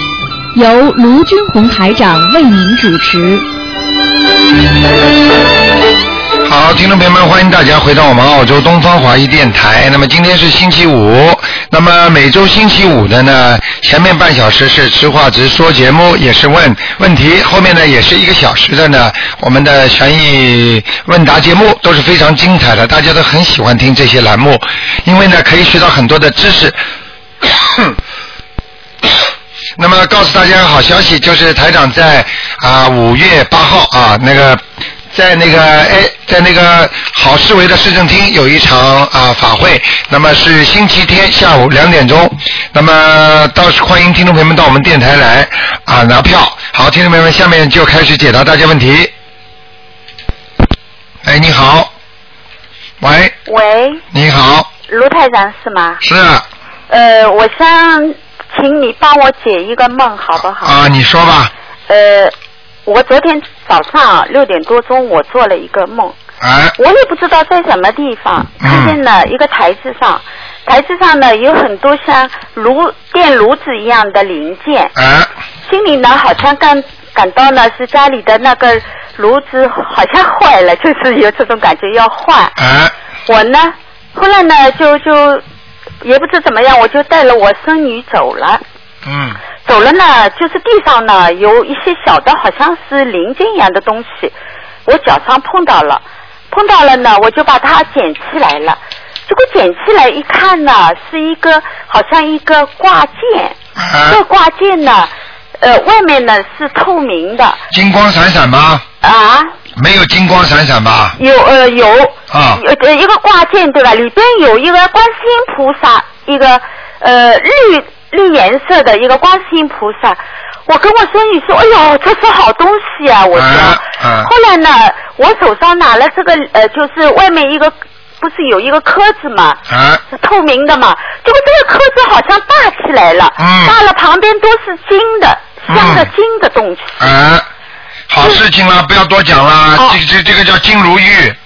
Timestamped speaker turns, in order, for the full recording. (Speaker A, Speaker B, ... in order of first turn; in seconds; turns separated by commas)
Speaker A: 0.5-3.5, Speaker B: 6.5-26.8, Speaker B: 27.4-28.0, Speaker B: 29.8-49.1, Speaker B: 51.2-51.9, Speaker B: 53.0-53.4, Speaker C: 53.5-54.0, Speaker B: 54.1-54.7, Speaker C: 54.9-56.0, Speaker B: 56.0-56.5, Speaker C: 56.9-60.9, Speaker B: 60.6-61.5, Speaker C: 61.9-62.3, Speaker C: 62.9-66.2, Speaker B: 66.4-66.8, Speaker C: 66.8-74.9, Speaker B: 68.6-69.0, Speaker B: 75.0-75.3, Speaker C: 75.7-82.6, Speaker B: 82.6-82.9, Speaker C: 83.3-85.4, Speaker C: 86.0-88.6, Speaker B: 89.0-89.4, Speaker C: 89.7-94.3, Speaker C: 94.9-103.5, Speaker B: 103.8-104.2, Speaker C: 104.1-107.6, Speaker B: 107.7-108.8, Speaker C: 109.0-109.5, Speaker B: 109.8-111.2, Speaker C: 111.2-137.0, Speaker B: 112.3-112.6, Speaker B: 123.3-124.3, Speaker B: 129.7-130.0, Speaker B: 133.4-133.8, Speaker B: 135.7-136.1, Speaker B: 137.0-137.5, Speaker B: 138.1-141.4